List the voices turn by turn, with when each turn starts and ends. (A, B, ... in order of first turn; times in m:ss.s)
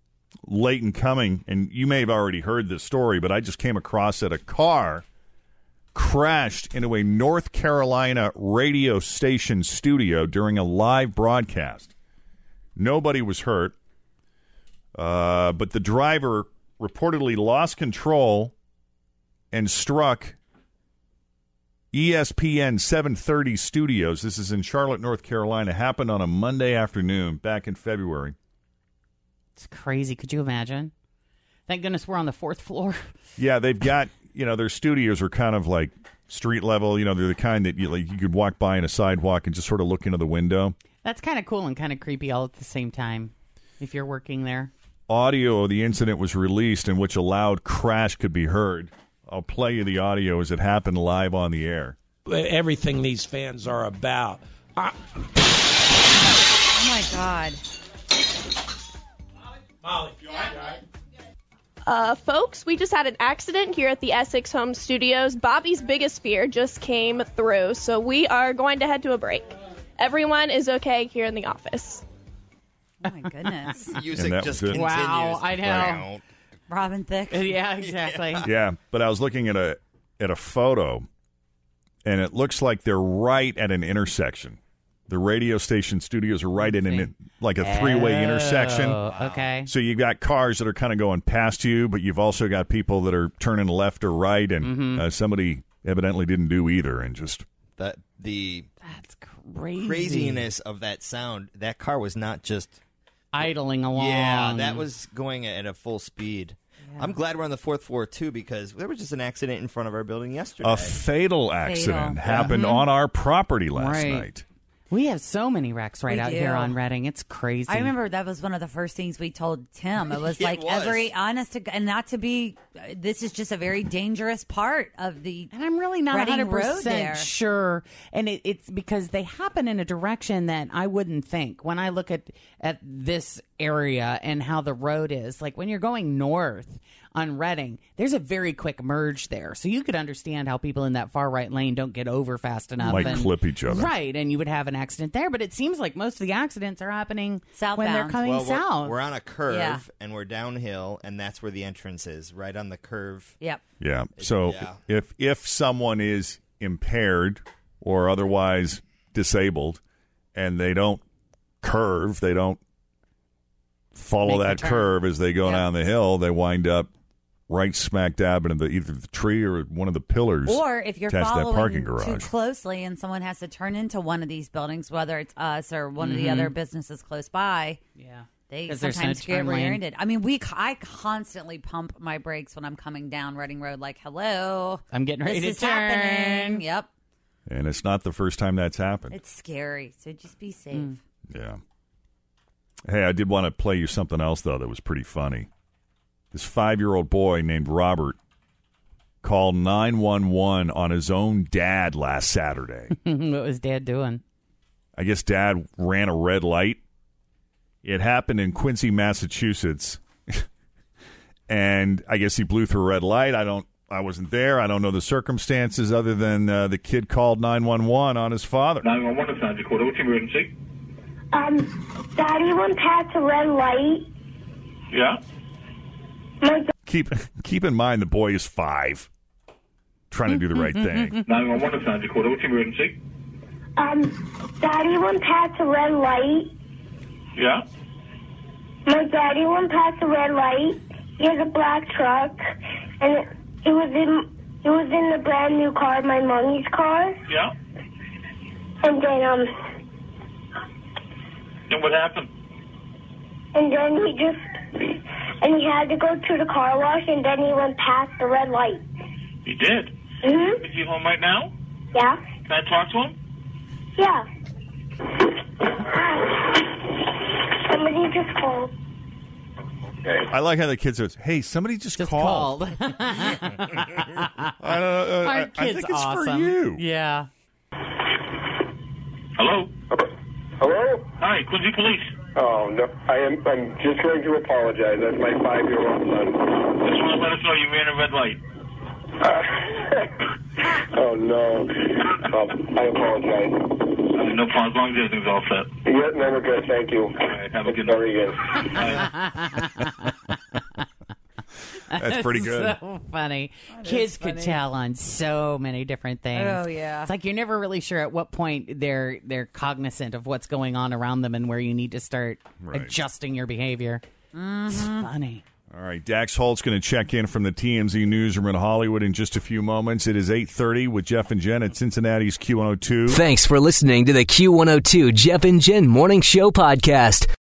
0:00.4-0:05.0 A
0:05.9-0:11.9 A
0:12.8-0:13.8 A
0:15.0-0:18.5 A
0:19.5-0:20.4 A
0:21.9-0:28.4 A
0:29.6-0:30.9 B
0:31.7-0:33.1 B
0:33.4-0:40.8 A
0:41.0-0:44.7 B
0:45.1-0:52.0 A
0:52.3-0:55.0 C
0:56.7-0:57.6 D
0:59.9-1:00.7 C
1:01.9-1:09.5 E
1:10.0-1:12.0 E
1:13.0-1:14.0 D
1:13.9-1:16.2 F
1:14.1-1:14.8 A
1:14.7-1:16.1 B
1:16.7-1:17.5 D
1:17.3-1:18.5 B
1:17.8-1:18.4 F
1:18.4-1:21.1 A
1:22.0-1:29.0 A
1:26.6-1:29.7 B
1:29.1-1:29.4 F
1:29.7-1:37.5 A
1:34.6-1:35.1 B
1:37.8-1:38.7 F
1:38.8-1:40.5 B
1:39.8-1:42.8 F
1:43.3-1:44.9 B
1:43.9-1:51.0 F
1:46.9-1:47.2 B
1:50.6-1:54.4 A
1:51.6-1:52.8 D
1:52.5-1:52.8 B
1:53.8-1:54.3 B
1:54.9-1:57.9 B
1:56.1-1:56.8 D
1:57.7-2:05.5 D
2:00.2-2:01.1 F
2:05.5-2:29.0 B
2:06.1-2:07.3 D
2:22.8-2:23.3 D
2:22.9-2:23.9 A
2:27.6-2:28.2 D
2:28.2-2:33.4 F
2:29.5-2:29.8 D
2:33.8-2:39.8 A
2:34.2-2:34.8 F
2:40.4-2:41.0 A
2:41.6-2:42.6 A
2:43.9-2:46.9 A
2:44.3-2:44.9 B
2:47.5-2:52.3 A
2:50.5-2:57.8 D
2:56.0-2:56.5 B
2:58.0-2:59.8 B
2:58.5-3:06.9 D
3:04.9-3:06.6 B
3:07.5-3:09.2 A
3:09.1-3:11.0 D
3:11.3-3:11.6 A
3:12.9-3:15.5 A
3:16.3-3:18.2 A
3:19.2-3:22.9 A
3:22.9-3:24.2 B
3:25.0-3:26.8 A
3:27.8-3:30.4 A
3:31.5-3:38.9 A
3:38.8-3:40.5 G
3:41.3-3:44.1 H
3:44.9-3:45.2 G
3:46.4-3:46.7 H
3:46.8-3:49.1 A
3:50.1-3:51.2 A
3:50.3-3:51.3 B
3:51.3-3:53.0 G
3:53.8-3:56.5 H
3:57.4-3:57.6 G
3:58.9-4:02.4 H
4:03.0-4:07.2 H
4:07.3-4:07.5 G
4:08.8-4:09.5 H
4:11.7-4:12.3 G
4:13.6-4:18.8 H
4:19.4-4:19.9 G
4:20.2-4:20.6 H
4:20.6-4:21.5 G
4:21.9-4:22.2 H
4:22.5-4:23.2 G
4:24.0-4:24.3 H
4:25.6-4:26.8 H
4:27.6-4:28.7 H
4:30.0-4:30.3 I
4:30.3-4:32.6 A
4:32.0-4:34.6 B
4:34.6-4:36.8 A
4:35.2-4:37.3 B
4:39.4-4:39.7 G
4:39.9-4:41.1 I
4:41.2-4:42.1 G
4:42.4-4:46.8 I
4:46.8-4:48.4 G
4:49.2-4:50.1 I
4:50.7-4:53.7 I
4:54.1-4:55.7 G
4:55.8-4:58.9 I
4:57.3-4:58.1 G
4:58.7-4:59.1 G
4:58.8-5:00.8 B
5:01.9-5:14.0 B
5:01.9-5:02.8 A
5:03.8-5:04.6 D
5:06.4-5:07.1 D
5:12.6-5:13.0 A
5:14.3-5:15.1 D
5:14.7-5:15.4 B
5:15.7-5:23.2 A
5:23.1-5:27.3 J